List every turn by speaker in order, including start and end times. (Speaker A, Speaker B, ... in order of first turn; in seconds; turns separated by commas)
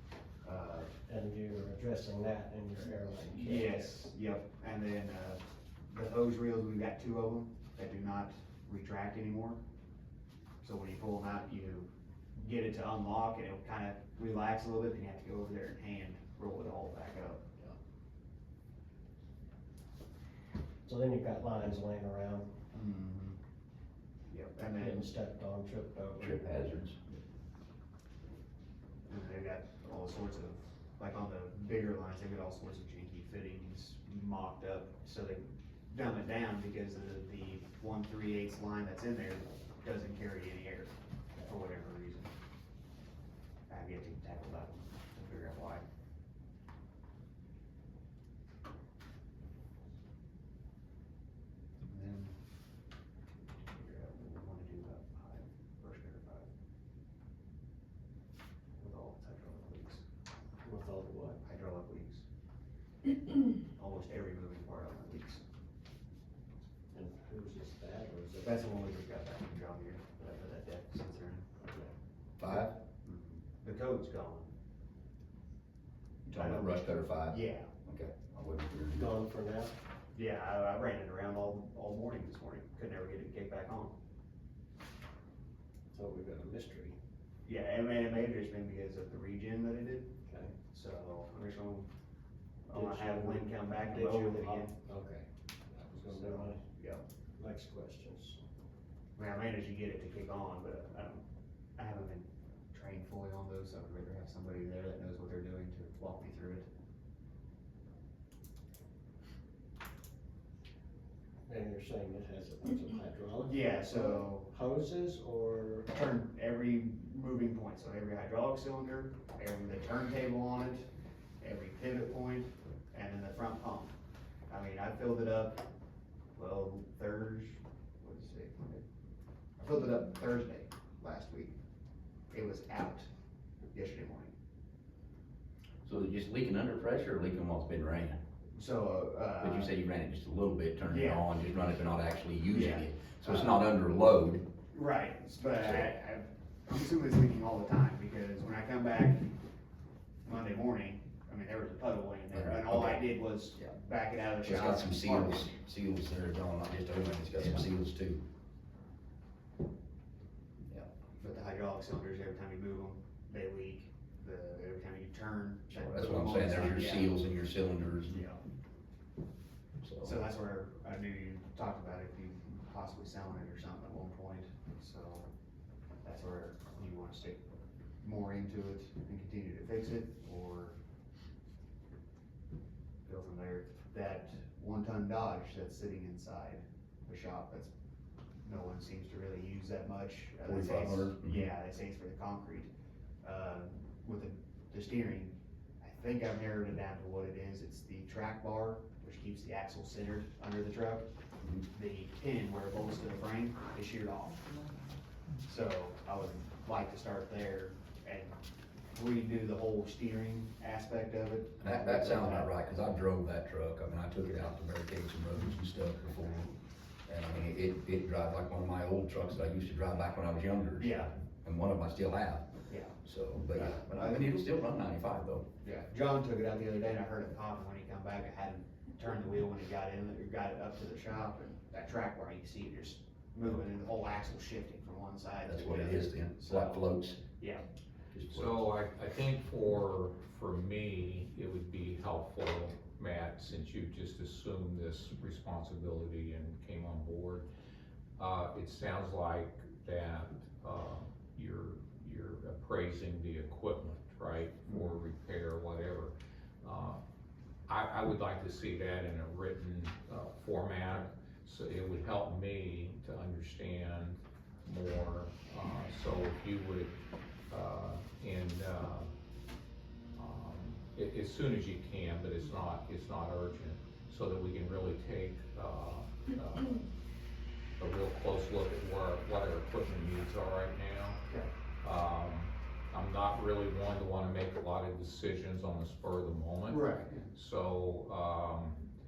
Speaker A: 0.4-0.9, Speaker B: 1.1-3.8, Speaker A: 3.4-9.6, Speaker A: 10.6-17.4, Speaker B: 20.9-22.5, Speaker A: 22.7-23.4, Speaker A: 24.3-25.1, Speaker B: 24.7-26.5, Speaker C: 26.2-27.0, Speaker A: 29.1-42.3, Speaker A: 43.7-45.8, Speaker A: 51.8-52.3, Speaker A: 53.6-56.5, Speaker A: 58.8-60.0, Speaker B: 60.6-61.4, Speaker A: 61.4-62.2, Speaker A: 63.6-65.4, Speaker B: 66.9-68.6, Speaker A: 68.4-71.6, Speaker C: 72.4-72.7, Speaker A: 72.4-74.5, Speaker C: 76.2-79.1, Speaker A: 76.3-77.7, Speaker B: 79.0-79.7, Speaker A: 80.1-83.9, Speaker B: 85.9-87.0, Speaker A: 87.4-90.1, Speaker B: 90.2-90.5, Speaker A: 90.7-91.9, Speaker A: 92.7-94.7, Speaker B: 92.7-96.6, Speaker A: 96.0-97.0, Speaker B: 97.4-98.4, Speaker A: 99.2-101.2, Speaker A: 101.8-106.7, Speaker B: 111.5-115.9, Speaker A: 113.4-114.5, Speaker A: 115.9-120.9, Speaker A: 121.4-123.9, Speaker A: 124.5-125.6, Speaker A: 126.3-128.8, Speaker A: 129.6-131.6, Speaker A: 132.3-133.1, Speaker A: 133.7-134.3, Speaker C: 135.8-138.2, Speaker A: 138.5-139.7, Speaker C: 139.4-144.4, Speaker A: 140.9-141.2, Speaker A: 142.5-143.7, Speaker A: 144.7-149.3, Speaker C: 145.6-145.9, Speaker A: 150.2-155.5, Speaker C: 152.3-153.7, Speaker C: 154.4-158.2, Speaker A: 161.2-167.2, Speaker C: 165.7-168.2, Speaker A: 168.1-168.4, Speaker C: 169.8-170.2, Speaker A: 170.0-175.3, Speaker A: 176.0-177.4, Speaker A: 178.0-180.8, Speaker A: 183.0-187.7, Speaker A: 188.4-192.7, Speaker C: 190.5-191.5, Speaker A: 193.2-201.1, Speaker A: 201.7-204.7, Speaker A: 205.4-212.5, Speaker C: 211.6-216.5, Speaker C: 217.1-222.5, Speaker A: 220.8-221.1, Speaker A: 222.7-222.9, Speaker C: 223.0-225.4, Speaker A: 223.5-224.2, Speaker A: 225.6-236.8, Speaker C: 235.4-237.2, Speaker A: 237.4-237.6, Speaker C: 238.1-238.7, Speaker D: 238.3-247.5, Speaker D: 248.2-257.0, Speaker D: 257.7-266.9, Speaker D: 267.5-269.1, Speaker D: 270.1-276.9, Speaker D: 277.8-281.2, Speaker D: 281.8-288.8, Speaker A: 286.7-287.3